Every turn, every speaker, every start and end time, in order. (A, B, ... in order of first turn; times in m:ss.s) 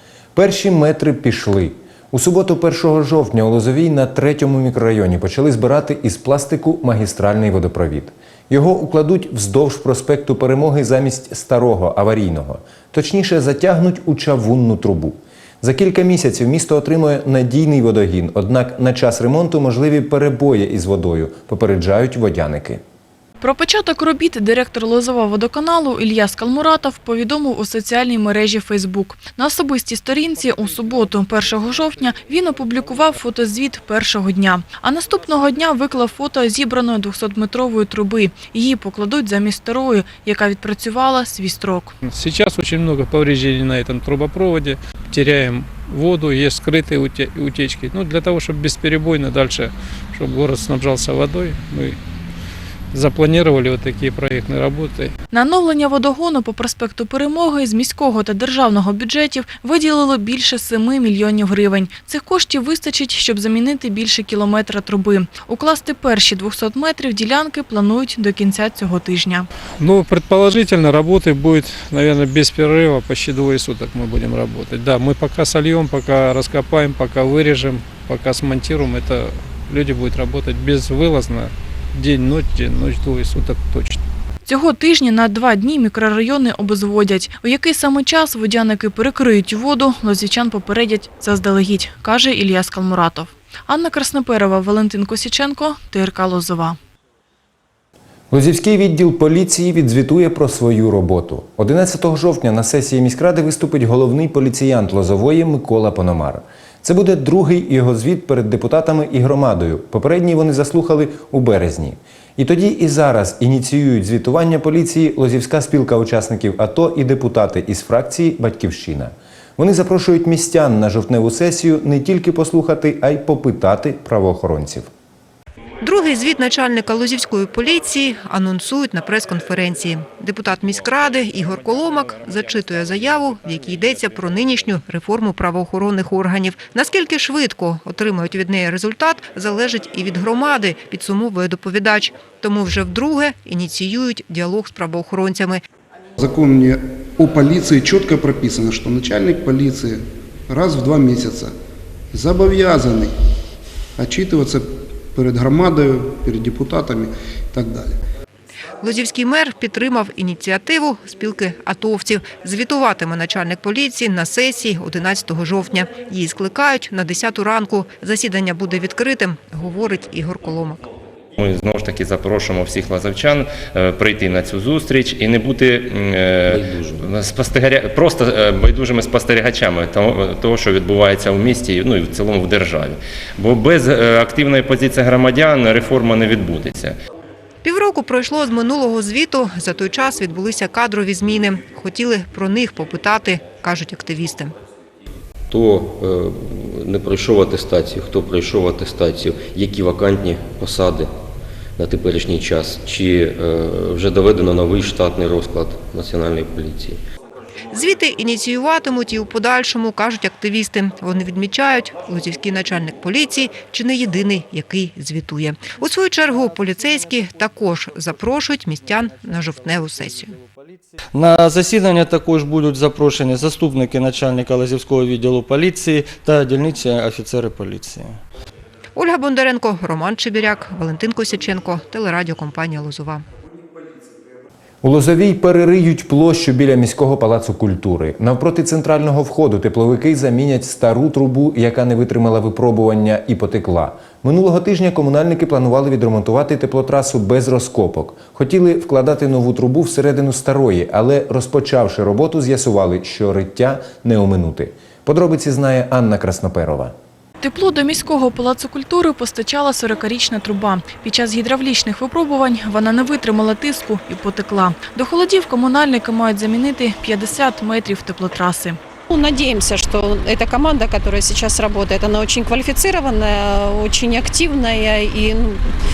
0:00.4-0:22.8 A
0:23.4-0:42.0 B
0:42.0-0:52.0 C
0:52.9-0:55.1 C
0:55.3-1:09.5 B
1:09.8-1:24.0 C
1:24.5-1:36.8 B
1:38.3-2:04.9 A
2:05.8-2:25.6 D
2:26.2-2:31.5 E
2:32.1-2:33.1 E
2:34.0-2:38.0 E
2:38.8-2:50.9 D
2:51.4-3:07.0 F
2:56.5-2:57.1 G
3:07.6-3:14.5 D
3:15.5-3:21.1 G
3:21.8-3:27.0 G
3:27.7-3:40.3 D
3:41.1-3:48.2 H
3:49.0-3:53.2 D
3:54.8-4:16.9 A
4:17.4-4:28.8 B
4:29.1-4:35.6 I